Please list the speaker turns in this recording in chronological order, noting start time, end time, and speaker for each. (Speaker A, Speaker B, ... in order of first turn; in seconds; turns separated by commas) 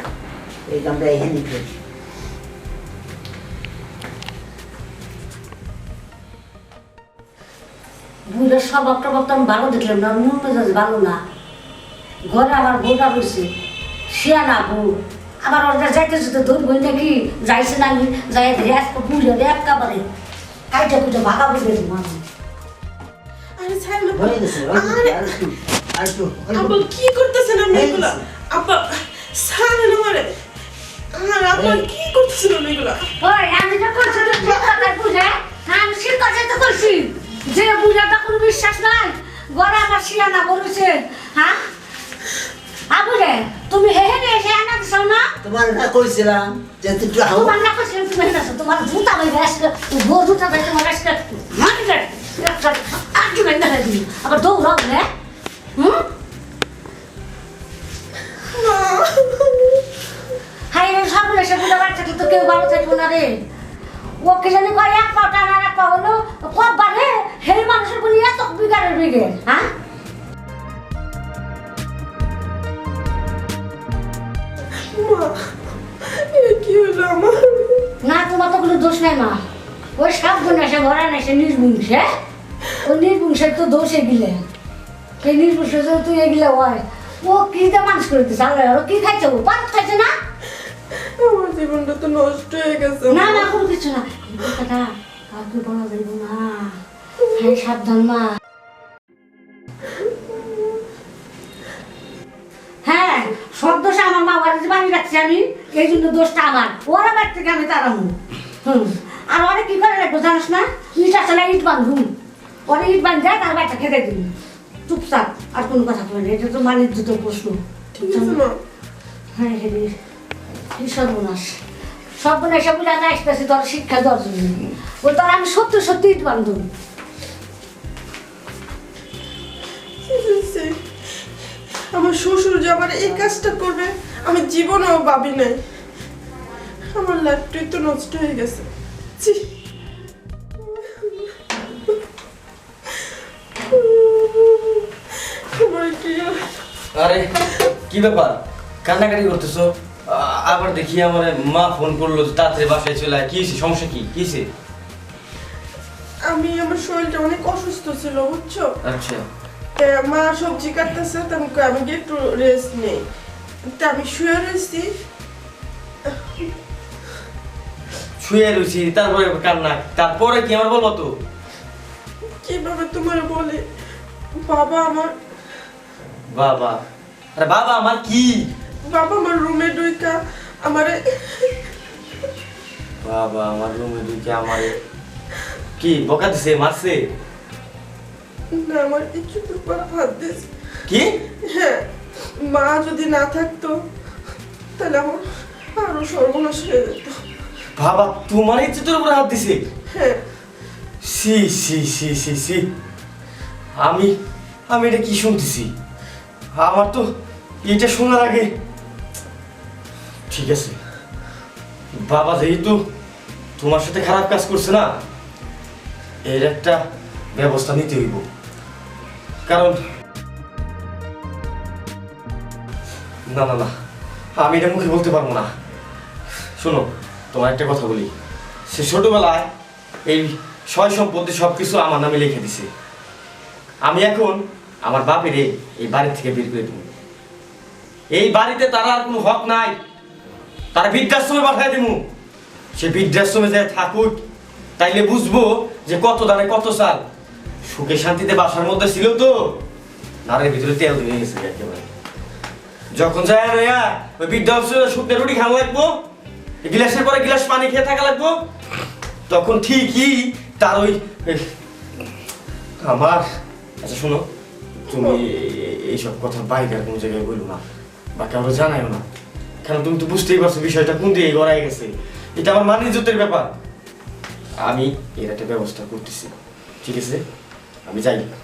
Speaker A: 0.7-1.8, Speaker B: 8.3-11.2, Speaker B: 12.2-13.5, Speaker B: 14.1-20.1, Speaker B: 20.7-22.2, Speaker C: 23.6-25.3, Speaker A: 24.1-26.9, Speaker C: 26.5-30.3, Speaker A: 27.7-28.2, Speaker C: 31.1-33.0, Speaker A: 31.5-31.8, Speaker B: 33.2-41.6, Speaker B: 42.9-45.3, Speaker A: 45.4-47.6, Speaker B: 47.3-55.0, Speaker B: 55.8-56.0, Speaker C: 58.5-59.8, Speaker B: 60.7-63.4, Speaker B: 64.2-69.7, Speaker C: 74.8-77.8, Speaker B: 78.0-79.4, Speaker B: 80.0-82.1, Speaker B: 82.8-84.4, Speaker B: 85.2-90.1, Speaker C: 90.9-93.5, Speaker B: 93.1-98.4, Speaker C: 100.0-100.6, Speaker B: 102.8-112.1, Speaker B: 112.7-114.3, Speaker B: 114.9-118.4, Speaker C: 118.0-118.6, Speaker B: 119.3-120.0, Speaker B: 120.8-121.6, Speaker B: 122.2-126.7, Speaker C: 130.0-130.8, Speaker C: 131.9-135.6, Speaker C: 136.9-138.7, Speaker C: 139.2-139.5, Speaker C: 140.6-141.3, Speaker C: 143.7-146.7, Speaker D: 146.9-154.5, Speaker C: 156.2-158.7, Speaker D: 158.8-159.2, Speaker C: 159.8-163.0, Speaker C: 163.8-164.9, Speaker C: 166.1-166.5, Speaker D: 168.2-171.1, Speaker C: 172.4-173.7, Speaker C: 174.4-175.1, Speaker D: 176.3-176.8, Speaker D: 177.4-178.5, Speaker C: 178.8-181.5, Speaker D: 183.0-184.8, Speaker D: 185.8-187.0, Speaker C: 188.5-190.5, Speaker D: 190.9-191.1, Speaker C: 191.4-191.9, Speaker C: 192.4-193.8, Speaker C: 194.8-197.2, Speaker D: 197.8-199.6, Speaker C: 199.9-200.2, Speaker D: 201.0-202.6, Speaker D: 203.8-204.1, Speaker D: 204.7-205.7, Speaker D: 206.6-207.0, Speaker D: 207.6-208.5, Speaker D: 210.3-210.8, Speaker D: 212.1-212.8, Speaker D: 213.6-214.9, Speaker D: 216.3-216.8, Speaker D: 217.3-218.2, Speaker D: 219.5-219.8, Speaker D: 223.3-223.7, Speaker D: 224.4-225.5, Speaker D: 226.6-228.1, Speaker D: 228.7-229.5, Speaker D: 230.1-232.7, Speaker D: 233.8-236.9, Speaker D: 238.1-239.8, Speaker D: 240.7-242.0, Speaker D: 242.8-244.2, Speaker D: 244.8-247.0, Speaker D: 247.7-249.6, Speaker D: 250.3-251.9, Speaker D: 252.9-255.9, Speaker D: 256.6-258.4, Speaker D: 259.3-261.4, Speaker D: 262.8-263.2, Speaker D: 263.8-264.2, Speaker D: 264.9-267.6, Speaker C: 264.9-265.2, Speaker D: 268.2-269.0, Speaker D: 269.6-273.5, Speaker D: 274.6-276.3, Speaker D: 276.8-277.2, Speaker D: 277.9-278.3